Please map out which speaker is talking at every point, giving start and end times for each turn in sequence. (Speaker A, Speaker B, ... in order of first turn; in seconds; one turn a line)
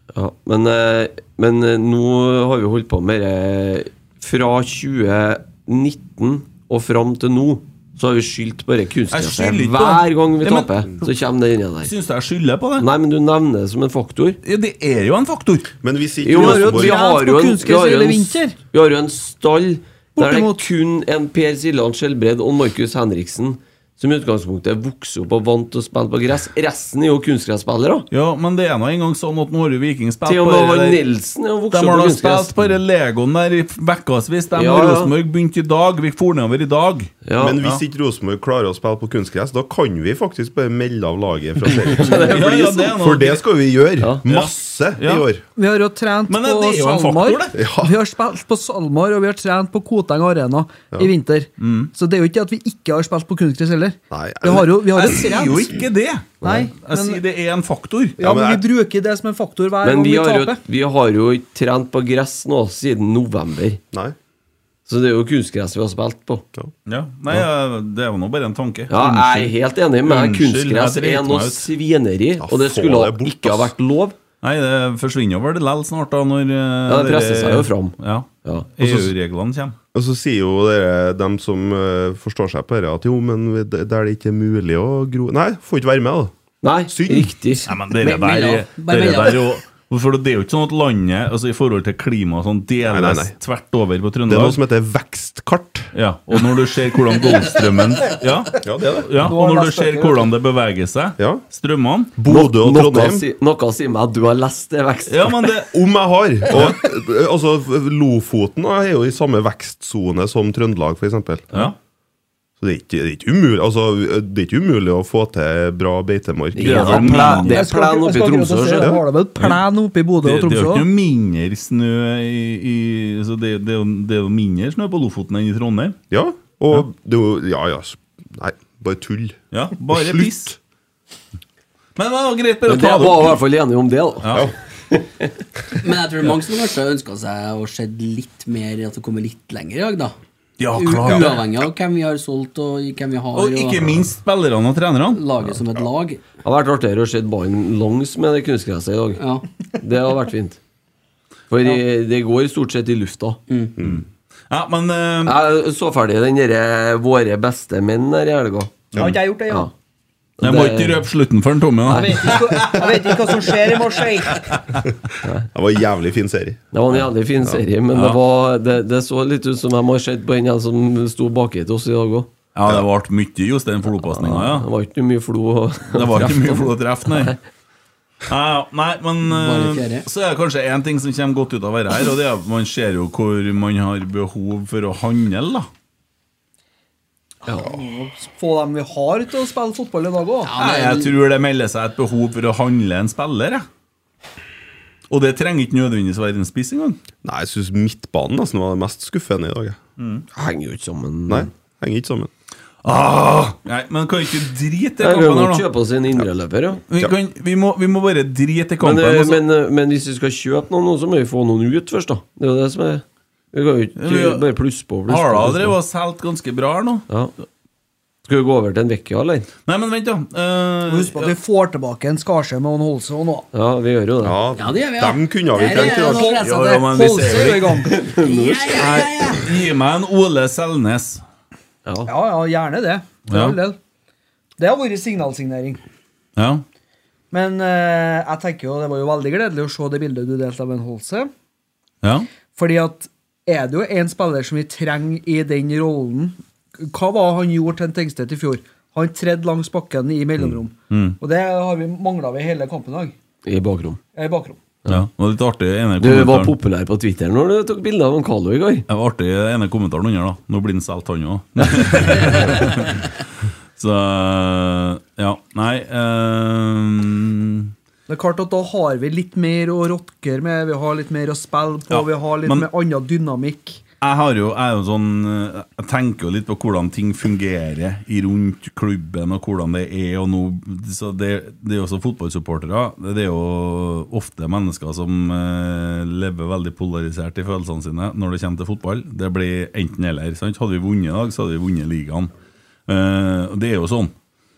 Speaker A: 0.1-11.9
Speaker B: 9.1-10.7
Speaker B: 11.8-12.9
Speaker A: 12.8-14.4
Speaker B: 14.4-15.7
Speaker C: 15.8-17.0
Speaker A: 16.2-28.1
Speaker D: 16.4-18.6
Speaker D: 20.2-20.7
Speaker B: 28.1-31.0
Speaker A: 30.2-32.8
Speaker B: 31.7-37.8
Speaker A: 34.5-35.1
Speaker A: 37.2-37.6
Speaker C: 37.4-45.4
Speaker A: 41.7-43.0
Speaker B: 42.3-43.4
Speaker B: 44.2-45.2
Speaker D: 45.5-55.7
Speaker B: 46.3-47.6
Speaker C: 47.5-47.9
Speaker B: 51.6-51.9
Speaker C: 54.1-54.8
Speaker B: 54.9-58.2
Speaker D: 56.4-57.2
Speaker D: 58.2-60.6
Speaker C: 58.2-58.6
Speaker A: 59.8-63.8
Speaker A: 64.9-66.4
Speaker B: 66.8-69.5
Speaker A: 68.9-74.2
Speaker B: 70.0-71.7
Speaker C: 72.4-73.7
Speaker B: 74.4-79.8
Speaker A: 76.9-78.7
Speaker C: 78.8-79.1
Speaker C: 79.9-86.3
Speaker A: 86.6-87.7
Speaker C: 86.9-87.3
Speaker B: 87.7-94.6
Speaker E: 87.9-89.5
Speaker C: 92.8-93.3
Speaker C: 94.3-95.9
Speaker B: 95.9-102.1
Speaker C: 98.6-99.3
Speaker D: 99.2-100.3
Speaker C: 101.2-101.4
Speaker C: 102.2-103.2
Speaker A: 102.3-105.5
Speaker B: 105.1-105.7
Speaker C: 105.7-111.5
Speaker B: 106.5-106.8
Speaker C: 112.6-117.4
Speaker A: 116.5-119.0
Speaker B: 116.6-117.6
Speaker D: 117.4-120.9
Speaker C: 118.8-119.0
Speaker B: 120.2-126.0
Speaker C: 126.1-129.4
Speaker B: 129.5-130.5
Speaker C: 129.9-130.5
Speaker B: 131.9-133.4
Speaker A: 132.7-135.3
Speaker B: 134.2-134.5
Speaker E: 135.7-140.1
Speaker B: 140.6-141.4
Speaker E: 140.7-144.1
Speaker B: 143.3-145.2
Speaker E: 145.1-146.2
Speaker A: 146.4-149.2
Speaker E: 149.2-149.4
Speaker A: 149.8-150.6
Speaker A: 151.5-153.4
Speaker E: 153.5-153.8
Speaker C: 153.8-154.0
Speaker B: 153.8-155.4
Speaker A: 155.2-158.9
Speaker D: 158.9-159.7
Speaker A: 160.4-161.0
Speaker B: 160.4-162.7
Speaker A: 161.9-162.9
Speaker D: 161.9-164.4
Speaker C: 165.5-166.6
Speaker A: 166.7-172.3
Speaker B: 167.9-168.2
Speaker B: 172.5-174.7
Speaker A: 174.0-177.3
Speaker B: 175.9-177.3
Speaker B: 178.2-185.7
Speaker E: 179.2-180.1
Speaker D: 187.4-190.5
Speaker E: 190.4-191.1
Speaker B: 190.6-193.7
Speaker B: 195.1-197.0
Speaker C: 197.2-199.8
Speaker B: 200.0-200.2
Speaker A: 200.3-201.5
Speaker C: 201.3-202.3
Speaker B: 202.8-205.6
Speaker A: 205.0-206.8
Speaker B: 206.9-209.4
Speaker A: 208.8-215.8
Speaker B: 214.0-214.4
Speaker B: 215.1-217.1
Speaker A: 218.2-219.5
Speaker B: 219.7-221.3
Speaker D: 220.9-223.5
Speaker A: 223.5-224.4
Speaker C: 224.2-226.4
Speaker E: 224.5-226.5
Speaker D: 225.6-228.0
Speaker B: 226.4-227.9
Speaker A: 227.8-229.1
Speaker E: 228.1-229.5
Speaker B: 228.8-231.2
Speaker A: 231.8-232.1
Speaker D: 232.1-233.8
Speaker B: 233.3-233.6
Speaker D: 234.6-235.8
Speaker B: 236.3-236.6
Speaker D: 237.3-241.3
Speaker B: 242.0-242.3
Speaker D: 242.5-253.2
Speaker B: 250.9-251.2
Speaker A: 253.4-254.0
Speaker D: 254.1-254.7
Speaker B: 254.9-256.5
Speaker A: 256.0-258.8
Speaker B: 258.9-263.2
Speaker B: 263.8-267.7
Speaker D: 268.1-273.8
Speaker B: 271.9-272.7
Speaker B: 274.0-292.3
Speaker B: 292.9-294.1